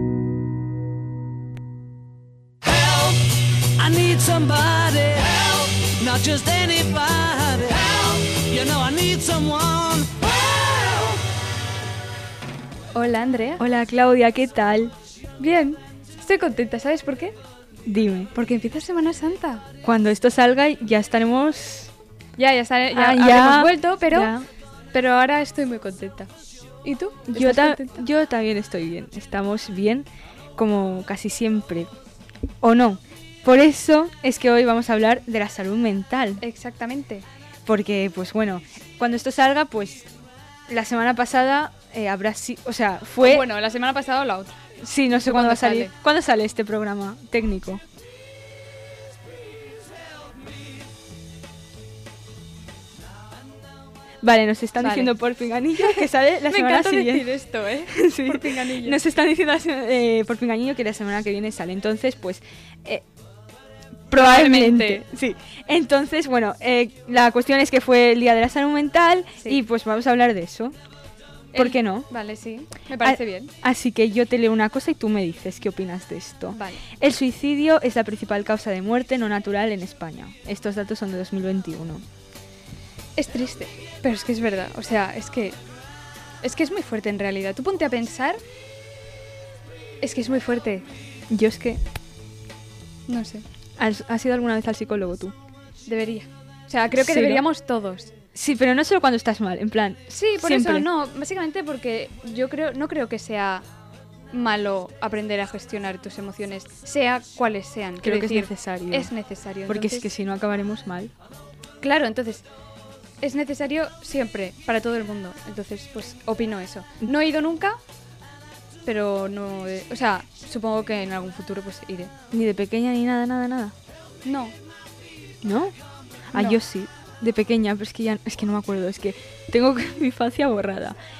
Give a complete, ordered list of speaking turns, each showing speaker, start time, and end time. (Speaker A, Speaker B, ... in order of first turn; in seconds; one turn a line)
Speaker A: 2.6-11.2
Speaker B: 12.9-13.6
Speaker C: 13.6-14.9
Speaker B: 15.4-17.3
Speaker C: 17.9-18.3
Speaker B: 18.3-19.6
Speaker C: 19.8-21.9
Speaker B: 22.4-24.3
Speaker C: 22.9-24.5
Speaker B: 24.9-26.3
Speaker B: 26.8-28.0
Speaker C: 27.3-31.9
Speaker C: 32.6-36.4
Speaker B: 36.4-37.2
Speaker C: 37.6-40.1
Speaker C: 40.7-43.5
Speaker B: 43.2-44.6
Speaker C: 44.8-47.8
Speaker B: 45.1-45.9
Speaker C: 54.2-57.2
Speaker B: 54.8-55.1
Speaker B: 55.8-59.0
Speaker C: 57.9-63.0
Speaker C: 64.1-70.7
Speaker B: 64.1-65.0
Speaker B: 71.5-73.5
Speaker C: 71.5-72.1
Speaker C: 73.0-82.0
Speaker B: 76.5-76.8
Speaker B: 83.2-85.6
Speaker B: 86.4-88.4
Speaker B: 90.0-90.8
Speaker C: 91.3-91.8
Speaker B: 93.1-93.4
Speaker C: 93.8-95.3
Speaker B: 95.8-98.1
Speaker C: 96.9-97.4
Speaker C: 98.3-100.9
Speaker B: 100.1-103.6
Speaker B: 104.3-110.1
Speaker C: 108.0-109.1
Speaker C: 109.7-111.1
Speaker B: 111.8-112.5
Speaker B: 113.2-117.8
Speaker B: 118.8-122.1
Speaker C: 122.3-123.7
Speaker B: 124.2-124.5
Speaker C: 125.4-125.7
Speaker C: 126.3-130.9
Speaker B: 126.3-126.6